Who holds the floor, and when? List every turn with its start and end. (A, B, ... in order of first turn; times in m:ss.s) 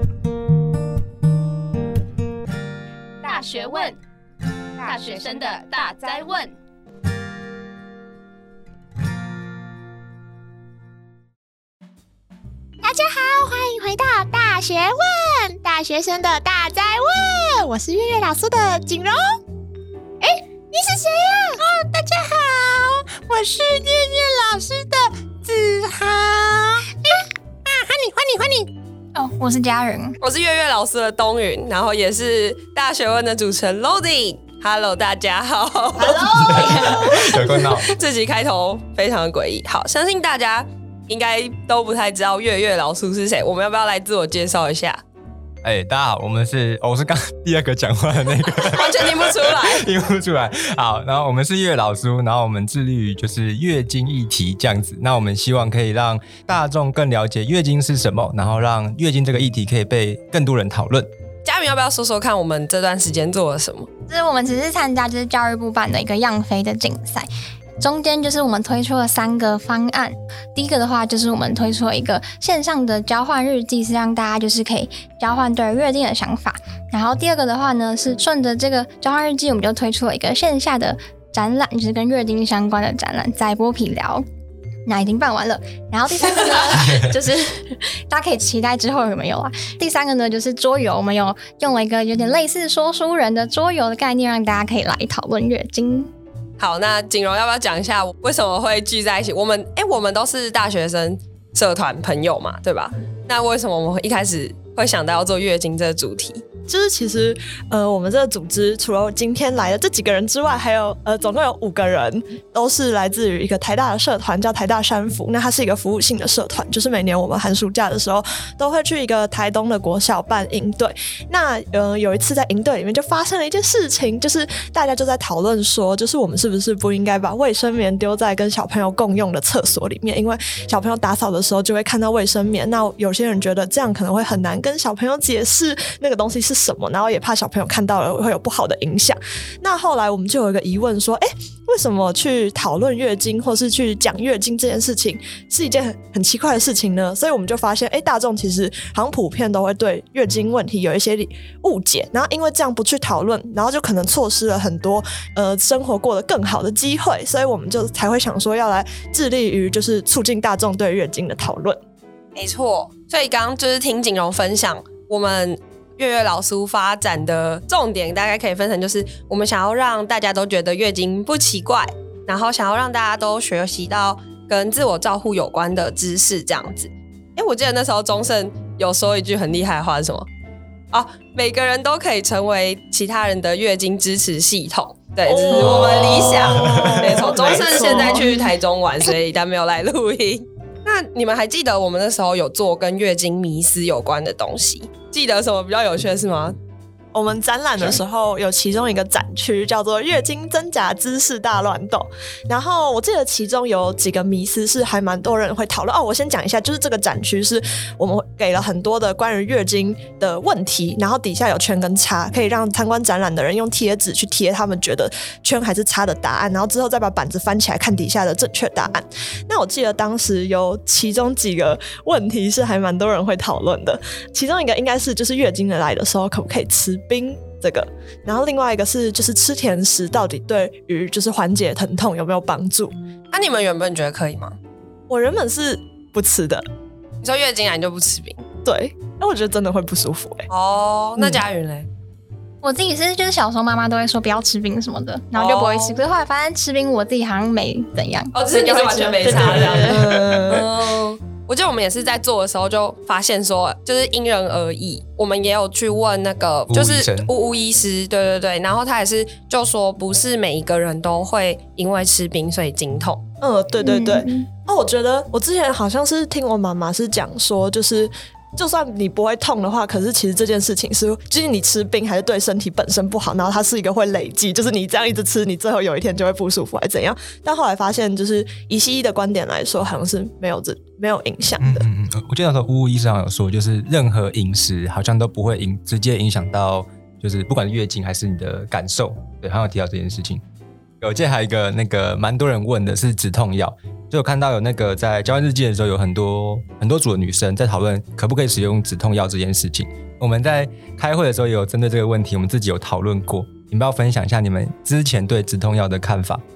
0:03.2-0:04.0 A
0:04.8-0:05.7 B
0:04.8-0:06.5 A
0:12.8-0:19.4 B
0:20.2-0:28.7 B
0:29.1-0:30.2 C
0:30.2-0:45.0 D
0:36.0-0:37.4 E
0:36.3-0:37.9 F
0:45.6-1:01.1 F
0:48.6-0:49.9 D
1:01.4-1:03.9 D
1:04.1-1:07.3 C
1:07.8-1:24.2 C
1:24.9-1:36.1 C
1:26.8-1:27.1 F
1:36.6-1:46.4 D
1:46.7-2:41.8 E
2:42.4-3:00.3 D
3:00.9-3:16.6 D
3:05.2-3:08.4 E
3:05.6-3:07.3 F
3:17.1-3:52.9 E
3:53.3-3:54.5 D
3:55.1-3:56.6 E
3:57.2-3:58.4 D
3:58.6-4:00.4 E
4:00.5-4:01.9 D
4:01.2-4:01.4 E
4:02.6-4:09.2 C
4:05.3-4:06.0 D
4:08.3-4:23.2 D
4:09.2-4:10.7 E
4:16.7-4:17.3 F
4:23.4-4:41.8 E
4:23.8-4:24.4 C
4:41.6-4:50.4 F
4:51.0-5:06.4 F